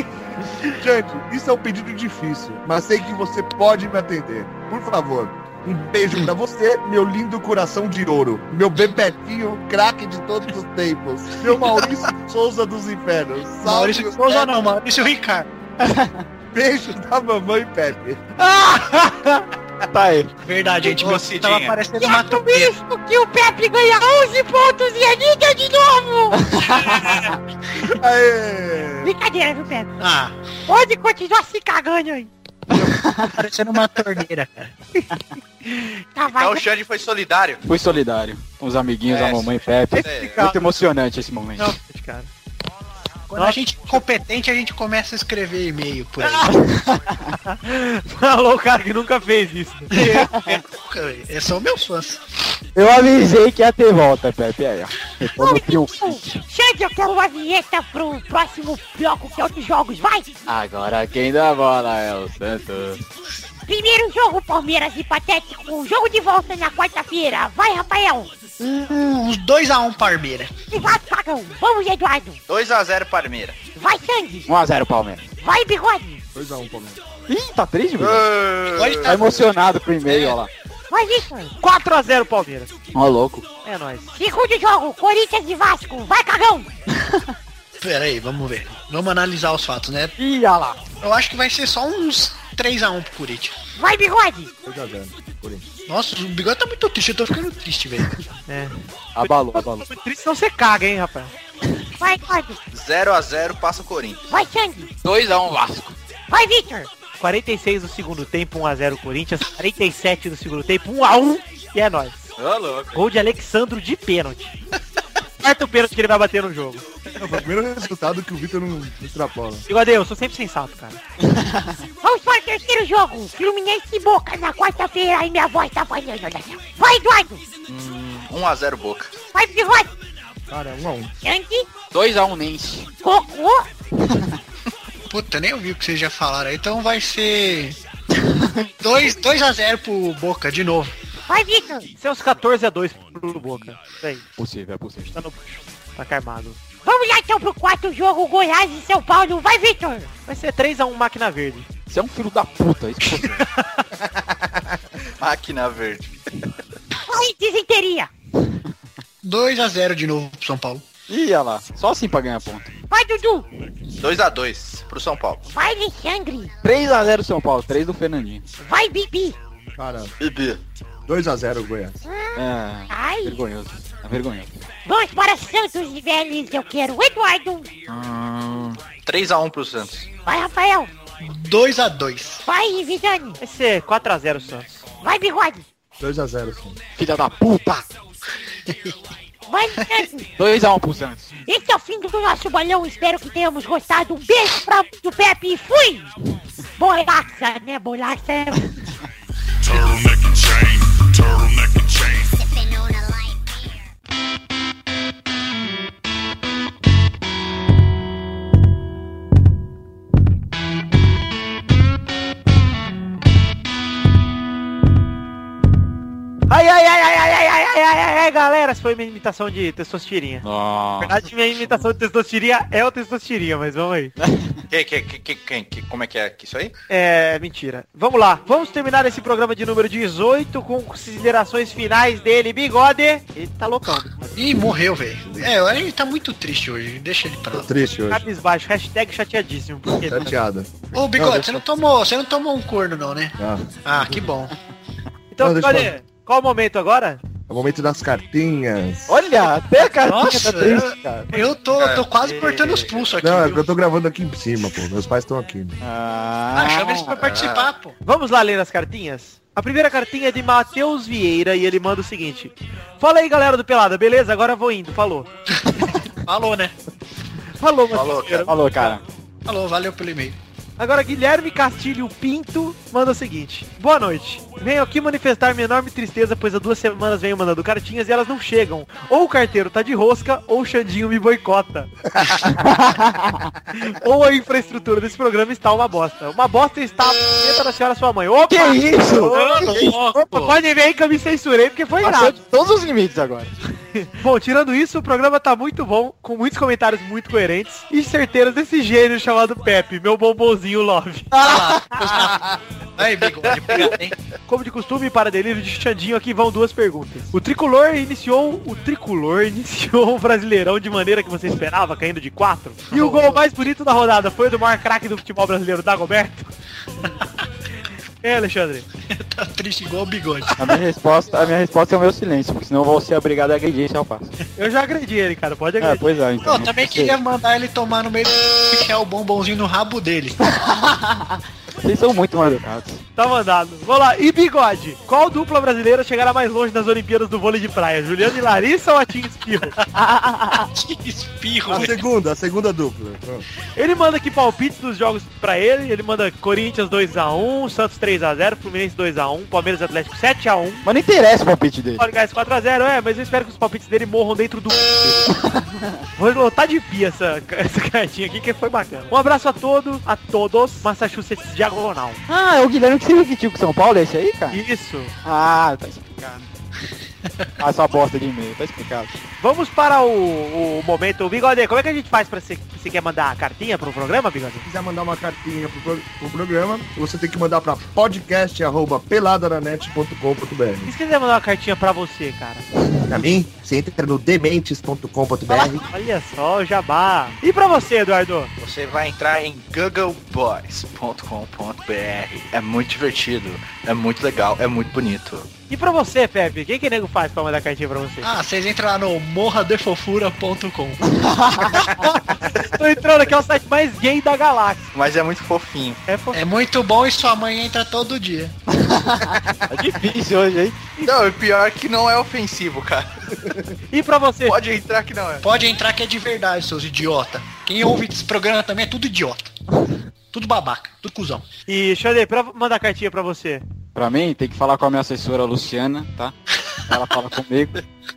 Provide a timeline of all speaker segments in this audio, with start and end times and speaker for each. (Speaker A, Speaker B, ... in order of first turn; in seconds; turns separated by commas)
Speaker A: 0.7-14.5, Speaker B: 13.6-15.5, Speaker C: 15.8-16.2, Speaker A: 16.5-18.2, Speaker C: 18.5-19.3, Speaker C: 19.9-20.3, Speaker B: 20.4-22.7, Speaker D: 20.8-21.8, Speaker E: 22.0-26.6, Speaker C: 26.5-27.3, Speaker A: 27.9-29.1, Speaker E: 29.0-29.9, Speaker B: 30.0-30.4, Speaker E: 30.7-32.3, Speaker B: 32.7-34.7, Speaker C: 32.8-33.3, Speaker E: 35.8-36.6, Speaker D: 36.3-37.6, Speaker C: 37.6-41.7, Speaker D: 39.0-40.4, Speaker F: 39.9-40.6, Speaker F: 41.6-42.3, Speaker B: 43.3-46.6, Speaker F: 46.2-46.5, Speaker C: 46.6-47.3, Speaker F: 47.5-49.9, Speaker B: 49.9-52.4, Speaker C: 50.0-50.6, Speaker C: 52.8-56.4, Speaker E: 55.2-60.4, Speaker C: 60.5-63.0, Speaker E: 63.6-68.4, Speaker B: 68.5-70.5, Speaker E: 70.7-72.4, Speaker D: 72.5-73.6, Speaker E: 73.8-74.5, Speaker C: 74.5-75.3, Speaker E: 75.4-76.2, Speaker A: 76.3-77.0, Speaker C: 77.3-78.3, Speaker D: 78.0-79.2, Speaker B: 78.7-79.5, Speaker C: 79.0-80.5, Speaker B: 80.0-80.4, Speaker E: 80.9-81.5, Speaker F: 81.6-82.7, Speaker C: 82.9-83.5, Speaker F: 83.6-84.1, Speaker E: 84.1-86.7, Speaker B: 87.8-90.2, Speaker C: 90.2-90.8, Speaker B: 91.0-93.6, Speaker E: 93.8-94.5, Speaker A: 94.6-95.7, Speaker B: 95.9-98.2, Speaker F: 98.5-101.3, Speaker C: 99.2-99.8, Speaker E: 102.0-102.6, Speaker D: 102.7-104.2, Speaker E: 104.3-104.9, Speaker C: 105.0-106.0, Speaker E: 106.3-106.9, Speaker F: 107.2-112.3, Speaker D: 112.4-113.0, Speaker F: 112.9-114.5, Speaker F: 115.4-116.8, Speaker A: 117.2-119.6, Speaker F: 119.7-121.0, Speaker C: 121.4-121.7, Speaker E: 122.0-127.4, Speaker D: 127.7-129.1, Speaker E: 129.3-129.9, Speaker A: 130.5-131.1, Speaker E: 131.2-131.7, Speaker C: 131.9-132.9, Speaker E: 133.0-133.7, Speaker C: 134.0-134.4, Speaker B: 135.1-137.8, Speaker C: 138.3-138.7, Speaker B: 138.8-140.9, Speaker E: 141.3-141.9, Speaker F: 142.0-144.2, Speaker C: 144.4-145.2, Speaker F: 145.1-146.6, Speaker E: 146.8-150.1, Speaker F: 150.3-151.7, Speaker C: 151.9-153.4, Speaker F: 153.2-153.8, Speaker A: 154.1-154.6, Speaker D: 155.2-156.2, Speaker E: 157.0-158.1, Speaker B: 159.2-160.8, Speaker C: 161.1-162.8, Speaker E: 162.9-163.4, Speaker D: 164.0-165.4, Speaker E: 165.5-166.5, Speaker C: 166.6-168.4, Speaker E: 168.6-169.3, Speaker A: 169.8-170.1, Speaker D: 170.2-170.6, Speaker A: 171.1-171.9, Speaker E: 172.0-173.4, Speaker C: 172.3-174.6, Speaker E: 174.8-177.7, Speaker D: 177.9-180.1, Speaker E: 180.2-180.9, Speaker B: 181.2-182.4, Speaker E: 182.4-183.4, Speaker F: 183.4-184.8, Speaker E: 185.0-185.7, Speaker A: 186.0-186.8, Speaker C: 186.9-187.9, Speaker B: 188.7-188.9, Speaker E: 189.5-190.3, Speaker C: 190.4-191.3, Speaker E: 191.4-196.1, Speaker E: 196.8-198.8, Speaker G: 199.6-202.6, Speaker F: 216.5-220.4, Speaker C: 220.4-221.2, Speaker F: 221.0-224.1, Speaker C: 224.2-224.5, Speaker D: 224.7-226.7, Speaker F: 226.9-234.4, Speaker B: 234.3-237.7, Speaker A: 237.5-238.2, Speaker F: 238.1-240.3, Speaker A: 240.0-241.6, Speaker B: 240.9-244.5, Speaker A: 243.4-243.7, Speaker F: 245.3-247.2, Speaker A: 245.4-245.9, Speaker A: 247.5-249.2, Speaker C: 249.1-251.3, Speaker B: 250.0-253.6, Speaker D: 251.7-253.1, Speaker A: 253.2-255.8, Speaker C: 255.8-257.1, Speaker B: 256.5-257.9, Speaker D: 257.1-257.7, Speaker F: 258.0-265.3, Speaker B: 265.6-266.8, Speaker F: 267.6-269.0, Speaker D: 267.9-268.5, Speaker C: 268.4-269.0, Speaker B: 269.4-270.4, Speaker F: 270.8-281.9, Speaker C: 282.4-283.5, Speaker F: 283.7-292.4, Speaker C: 288.5-290.5, Speaker B: 289.1-290.2, Speaker C: 292.0-293.5, Speaker F: 293.9-301.5, Speaker B: 301.4-304.1, Speaker C: 301.4-302.1, Speaker F: 304.5-316.5, Speaker B: 312.9-313.4, Speaker F: 318.2-318.9, Speaker B: 319.1-320.5, Speaker C: 320.6-324.3, Speaker F: 324.6-326.1, Speaker C: 325.8-327.2, Speaker B: 326.4-330.4, Speaker C: 330.4-333.0, Speaker F: 333.2-339.7, Speaker C: 339.9-340.7, Speaker B: 340.7-342.0, Speaker A: 341.7-343.4, Speaker F: 343.8-350.8, Speaker C: 350.8-352.0, Speaker F: 352.0-355.4, Speaker F: 356.1-362.2, Speaker C: 362.3-364.6, Speaker F: 364.5-365.1, Speaker C: 365.2-366.5, Speaker C: 367.6-369.1, Speaker F: 369.4-374.6, Speaker A: 374.6-380.9, Speaker F: 380.9-382.7, Speaker A: 383.1-385.9, Speaker F: 385.5-388.5, Speaker D: 388.6-395.5, Speaker F: 395.7-398.3, Speaker B: 398.2-401.0, Speaker C: 401.1-401.7, Speaker F: 401.7-404.9, Speaker D: 404.9-406.0, Speaker F: 406.1-406.4, Speaker B: 406.3-408.6, Speaker C: 408.7-410.9, Speaker D: 411.0-413.4, Speaker F: 413.9-414.6, Speaker D: 414.4-415.4, Speaker B: 415.4-419.6, Speaker B: 420.3-421.4, Speaker F: 421.7-423.6, Speaker C: 423.9-426.3, Speaker C: 426.9-427.8